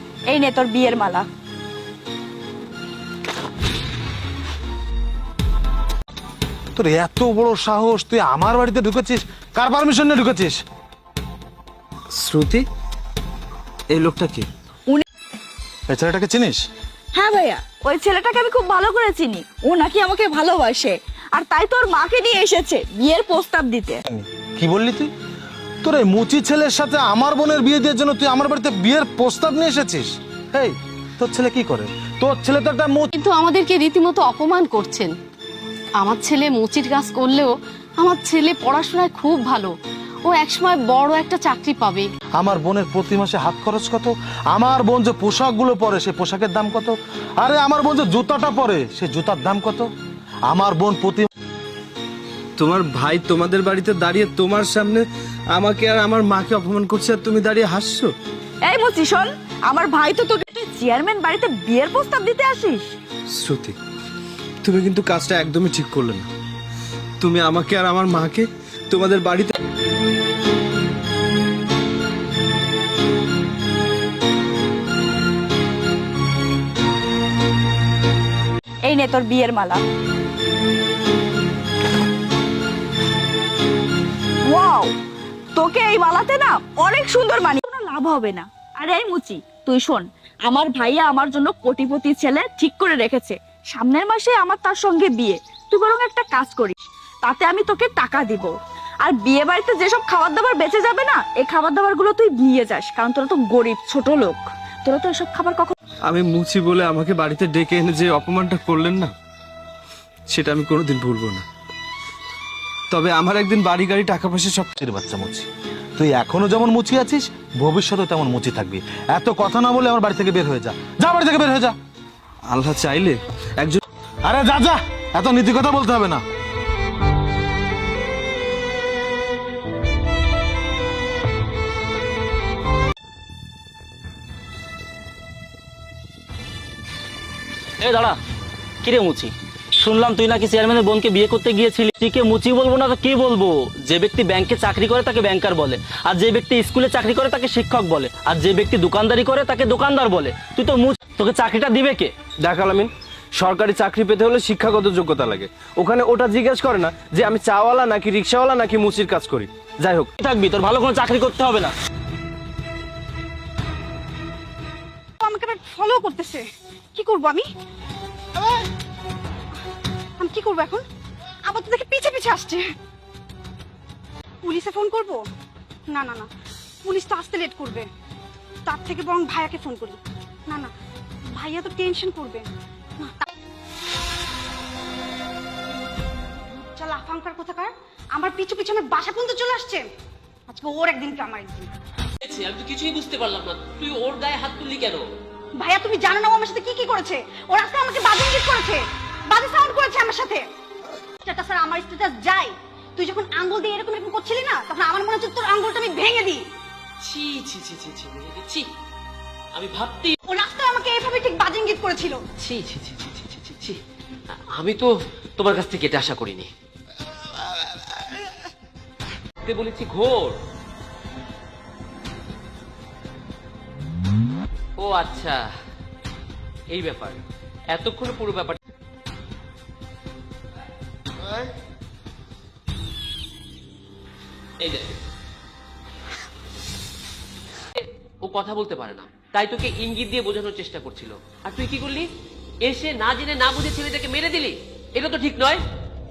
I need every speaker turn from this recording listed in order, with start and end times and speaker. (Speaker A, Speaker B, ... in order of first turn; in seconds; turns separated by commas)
Speaker A: 0.3-1.2, Speaker B: 6.7-10.6, Speaker C: 12.1-12.7, Speaker C: 13.9-14.5, Speaker B: 15.9-16.6, Speaker A: 17.1-24.0, Speaker B: 24.1-25.1, Speaker B: 25.8-33.1, Speaker D: 33.1-35.1, Speaker D: 36.0-39.7, Speaker D: 40.3-42.1, Speaker B: 42.4-49.9, Speaker B: 50.5-51.3, Speaker C: 52.6-58.1, Speaker A: 58.6-62.9, Speaker C: 63.3-63.8, Speaker C: 64.6-66.3, Speaker C: 67.2-69.5, Speaker A: 78.8-79.8, Speaker A: 84.5-85.0, Speaker A: 85.5-105.8, Speaker C: 106.1-109.1, Speaker C: 110.3-111.4, Speaker C: 112.9-114.7, Speaker B: 114.7-121.7, Speaker C: 122.5-123.8, Speaker B: 124.2-126.2, Speaker E: 137.8-138.2, Speaker E: 138.8-152.1, Speaker C: 152.4-160.1, Speaker E: 160.2-161.7, Speaker F: 165.2-167.5, Speaker F: 170.2-170.8, Speaker F: 171.4-172.7, Speaker F: 174.4-175.2, Speaker F: 175.9-176.3, Speaker F: 176.8-177.9, Speaker F: 178.7-180.7, Speaker F: 181.3-183.3, Speaker F: 186.8-189.9, Speaker F: 190.5-191.7, Speaker G: 192.2-195.0, Speaker F: 195.6-200.5, Speaker F: 201.2-206.4, Speaker G: 207.0-208.7, Speaker G: 209.5-210.2, Speaker F: 210.2-212.2, Speaker G: 212.4-213.8, Speaker G: 214.6-216.5, Speaker G: 219.4-220.3, Speaker G: 224.8-225.4, Speaker G: 226.7-227.2, Speaker G: 227.7-228.6, Speaker G: 234.6-234.9, Speaker G: 237.7-242.0, Speaker G: 242.6-245.6